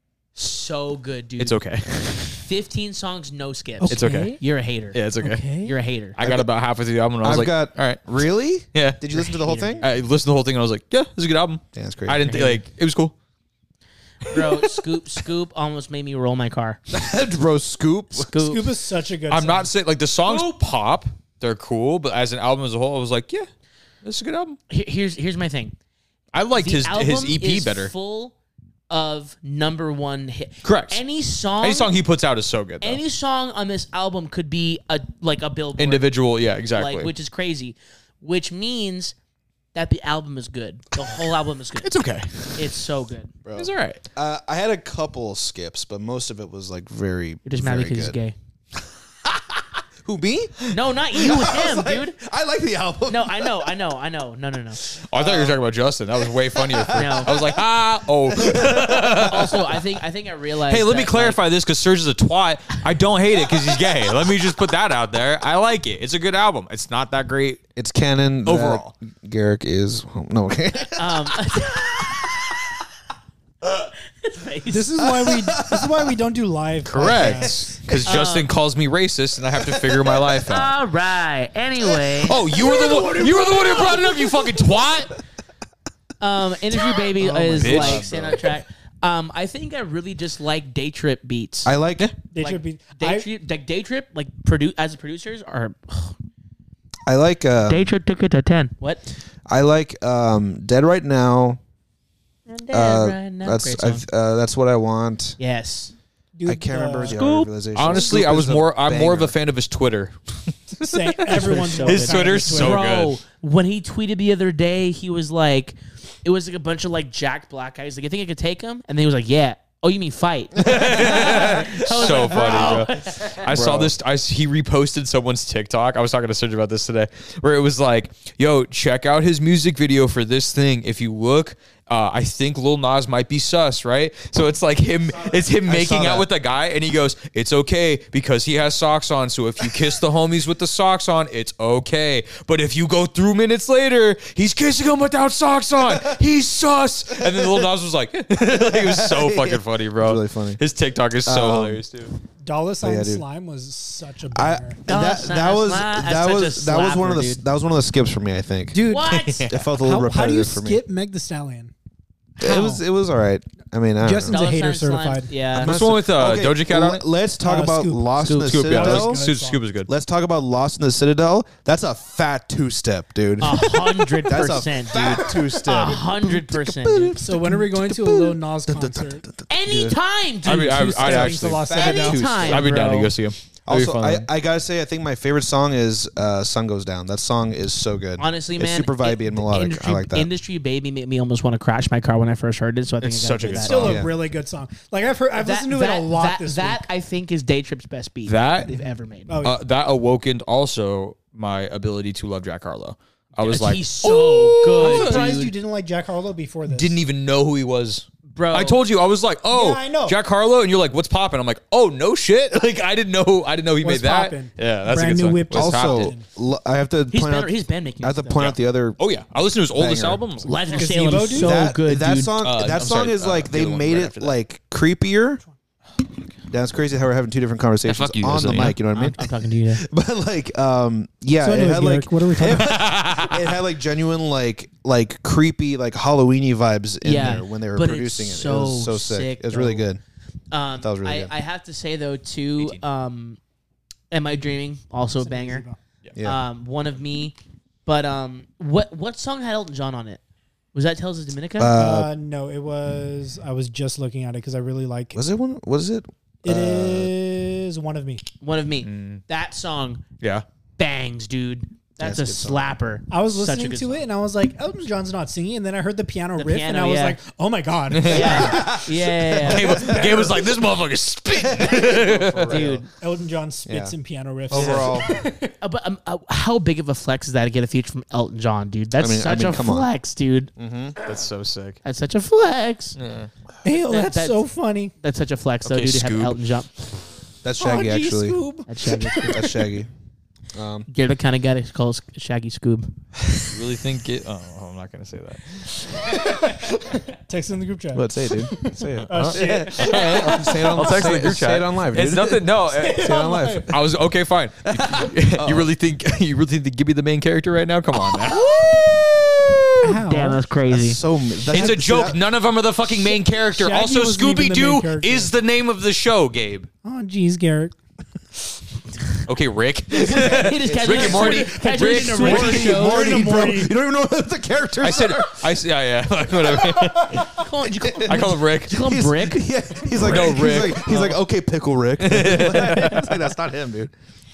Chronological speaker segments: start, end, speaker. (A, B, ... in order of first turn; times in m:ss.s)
0:00.4-0:01.6 A
0:01.4-0:02.4 B
0:02.3-0:06.2 A
0:03.8-0:04.3 C
0:03.9-0:04.4 B
0:03.9-0:04.3 D
0:04.9-0:05.6 B
0:05.3-0:05.6 C
0:06.2-0:08.1 B
0:06.2-0:06.5 D
0:07.2-0:09.8 D
0:08.7-0:09.0 B
0:09.1-0:09.8 A
0:09.8-0:13.1 B
0:11.7-0:12.3 D
0:12.3-0:12.6 A
0:14.2-0:16.8 A
0:16.9-0:18.3 D
0:18.2-0:18.7 A
0:18.3-0:19.7 C
0:19.3-0:23.5 B
0:20.3-0:20.5 A
0:24.0-0:24.6 B
0:24.7-0:25.8 A
0:26.3-0:27.9 B
0:26.6-0:28.4 A
0:28.9-0:31.9 A
0:30.6-0:31.0 B
0:31.6-0:33.0 B
0:32.8-0:36.1 A
0:35.8-0:37.1 B
0:36.8-0:39.1 A
0:39.7-0:41.9 A
0:41.8-0:42.8 B
0:42.6-0:43.3 A
0:43.4-0:48.2 D
0:43.6-0:44.0 B
0:47.4-0:48.4 A
0:50.1-0:50.5 D
0:50.7-0:52.2 A
0:51.2-0:53.7 D
0:53.1-0:54.8 A
0:55.0-0:59.8 B
0:55.2-0:55.6 D
0:56.4-0:57.6 D
0:57.0-0:57.3 A
0:58.3-0:59.6 D
0:59.2-1:01.4 A
1:00.7-1:07.6 B
1:07.8-1:11.4 D
1:08.5-1:08.9 B
1:10.9-1:12.5 A
1:13.8-1:14.9 A
1:14.7-1:17.7 C
1:15.0-1:16.1 D
1:16.8-1:20.7 B
1:18.0-1:18.5 A
1:19.5-1:20.4 D
1:20.5-1:23.2 A
1:21.8-1:23.2 D
1:22.2-1:25.1 B
1:22.6-1:24.0 C
1:26.2-1:31.7 A
1:27.2-1:28.5 D
1:27.6-1:28.4 B
1:31.6-1:32.1 D
1:32.3-1:33.3 C
1:32.4-1:36.2 A
1:37.1-1:37.9 D
1:37.6-1:39.0 A
1:39.5-1:41.6 D
1:42.5-1:44.0 A
1:42.7-1:45.4 D
1:45.4-1:45.9 A
1:46.4-1:47.2 C
1:46.5-1:49.4 D
1:47.1-1:47.5 A
1:47.7-1:53.2 B
1:50.8-1:52.9 C
1:51.3-2:03.4 A
2:00.6-2:02.9 D
2:00.6-2:32.1 B
2:03.4-2:04.0 D
2:15.1-2:16.3 D
2:25.8-2:26.2 D
2:27.1-2:27.7 D
2:28.4-2:30.6 D
2:31.2-2:31.8 D
2:32.4-2:34.8 C
2:32.8-2:33.2 D
2:34.3-2:38.8 D
2:34.9-2:37.4 A
2:38.8-2:39.1 C
2:38.8-2:39.6 B
2:38.8-2:39.5 A
2:39.5-2:40.8 D
2:39.8-2:41.7 C
2:42.4-2:42.8 C
2:42.4-2:44.4 D
2:44.0-2:45.3 C
2:44.3-2:45.7 A
2:45.5-2:49.2 D
2:45.6-2:47.0 B
2:47.4-2:48.1 C
2:48.2-2:49.9 B
2:48.7-2:49.6 C
2:49.9-3:00.0 D
2:53.4-2:57.2 A
2:57.2-2:59.2 C
2:59.5-3:00.8 A
3:00.4-3:01.6 B
3:00.5-3:02.2 C
3:01.0-3:02.8 D
3:01.7-3:03.1 A
3:02.4-3:04.3 B
3:03.7-3:10.3 D
3:08.2-3:13.8 A
3:13.0-3:14.0 B
3:13.5-3:16.8 C
3:13.8-3:14.1 D
3:15.4-3:19.4 A
3:18.3-3:18.8 B
3:19.3-3:19.6 C
3:19.4-3:25.4 B
3:23.4-3:25.5 A
3:24.1-3:27.0 C
3:26.7-3:36.2 B
3:28.3-3:28.8 A
3:29.5-3:30.2 C
3:33.8-3:36.2 C
3:35.5-3:39.0 D
3:37.1-3:38.5 A
3:38.4-3:40.9 B
3:39.8-3:40.2 D
3:40.4-3:42.3 A
3:40.7-3:41.6 C
3:41.4-3:45.4 D
3:42.4-3:44.3 B
3:46.5-3:49.2 D
3:47.8-3:48.8 B
3:48.9-3:49.8 A
3:49.8-4:00.0 D
3:51.4-3:52.8 C
3:52.5-3:53.5 B
3:57.0-3:59.9 A
4:00.5-4:03.4 A
4:00.8-4:01.3 D
4:04.1-4:05.6 A
4:05.2-4:05.8 C
4:06.2-4:06.4 D
4:06.2-4:10.2 A
4:10.7-4:11.7 A
4:11.6-4:12.1 D
4:11.8-4:15.2 C
4:15.1-4:17.1 D
4:16.4-4:18.2 C
4:18.4-4:20.0 A
4:18.8-4:19.2 B
4:20.8-4:24.1 A
4:22.0-4:22.7 D
4:23.1-4:28.8 C
4:26.4-4:27.2 A
4:27.9-4:28.6 B
4:28.1-4:29.9 A
4:28.2-4:30.5 D
4:29.4-4:32.7 B
4:31.4-4:32.8 D
4:32.5-4:32.9 A
4:33.0-4:35.5 C
4:33.7-4:34.0 D
4:34.5-4:35.2 D
4:34.5-4:35.1 B
4:35.6-4:40.5 A
4:39.0-4:39.9 D
4:40.6-4:41.0 D
4:41.0-4:41.8 B
4:41.8-4:43.0 A
4:43.0-4:43.3 B
4:43.6-4:44.9 C
4:43.8-4:44.4 A
4:45.0-4:46.7 A
4:45.6-4:46.4 B
4:47.4-4:48.4 D
4:47.6-4:49.6 C
4:48.7-4:49.5 A
4:49.3-4:49.9 D
4:50.5-4:50.9 D
4:50.9-4:52.9 A
4:53.4-4:56.2 B
4:57.2-5:01.1 C
4:57.9-5:03.8 D
4:59.3-5:03.1 B
5:02.7-5:03.7 C
5:03.7-5:08.7 B
5:04.7-5:05.7 D
5:09.8-5:10.4 C
5:10.0-5:11.0 A
5:10.7-5:12.2 D
5:11.5-5:16.7 B
5:12.9-5:15.3 C
5:16.8-5:17.8 C
5:19.3-5:22.8 B
5:19.9-5:23.2 A
5:20.2-5:21.4 D
5:20.9-5:23.7 C
5:22.1-5:25.5 D
5:24.8-5:27.5 B
5:26.4-5:27.2 D
5:27.3-5:29.5 A
5:27.7-5:33.9 D
5:28.1-5:28.9 B
5:29.9-5:31.2 B
5:32.0-5:33.2 B